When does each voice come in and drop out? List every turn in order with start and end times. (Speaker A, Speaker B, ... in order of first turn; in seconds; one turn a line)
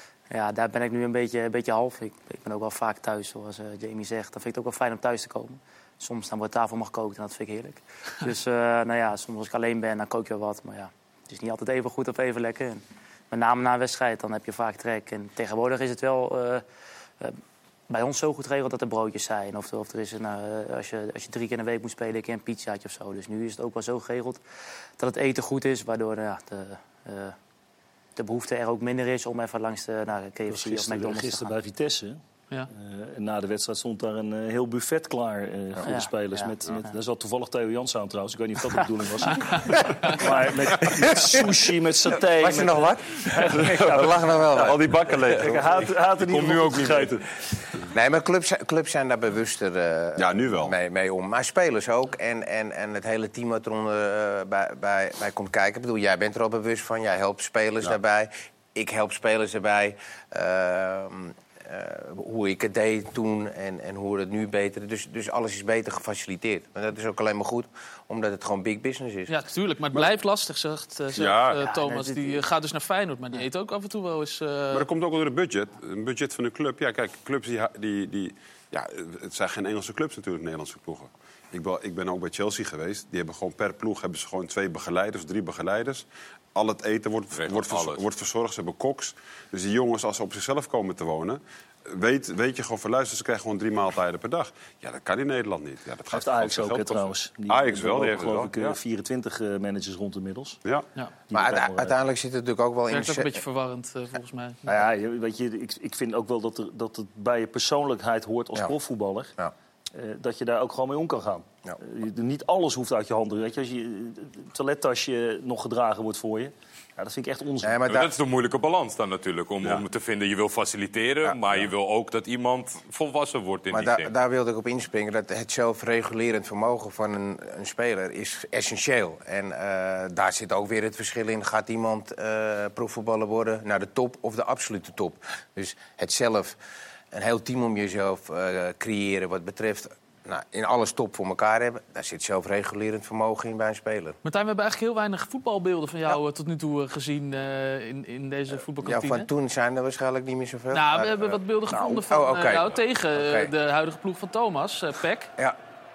Speaker A: 0.3-16.6
Speaker A: 17.2-24.4
Speaker A: 25.0-27.4
Speaker A: 28.1-31.5
Speaker B: 30.5-32.2
Speaker B: 32.7-42.8
Speaker A: 35.8-36.9
Speaker C: 39.3-40.1
Speaker D: 41.0-41.5
Speaker D: 42.2-44.8
Speaker E: 43.4-45.9
Speaker B: 43.4-44.2
Speaker B: 45.4-47.3
Speaker F: 46.1-47.1
Speaker D: 47.9-69.3
Speaker E: 50.2-50.7
Speaker C: 69.3-74.8
Speaker E: 71.1-71.6
Speaker A: 71.2-72.4
Speaker E: 74.7-98.8
Speaker F: 87.3-88.0
Speaker B: 96.1-100.6
Speaker B: 101.3-102.0
Speaker D: 101.3-103.4
Speaker C: 102.9-104.7
Speaker B: 104.7-109.3
Speaker B: 109.9-117.8
Speaker D: 117.6-118.1
Speaker F: 117.9-124.1
Speaker D: 123.7-136.6
Speaker D: 137.1-144.2
Speaker C: 144.2-149.3
Speaker D: 148.8-153.5
Speaker C: 150.7-155.3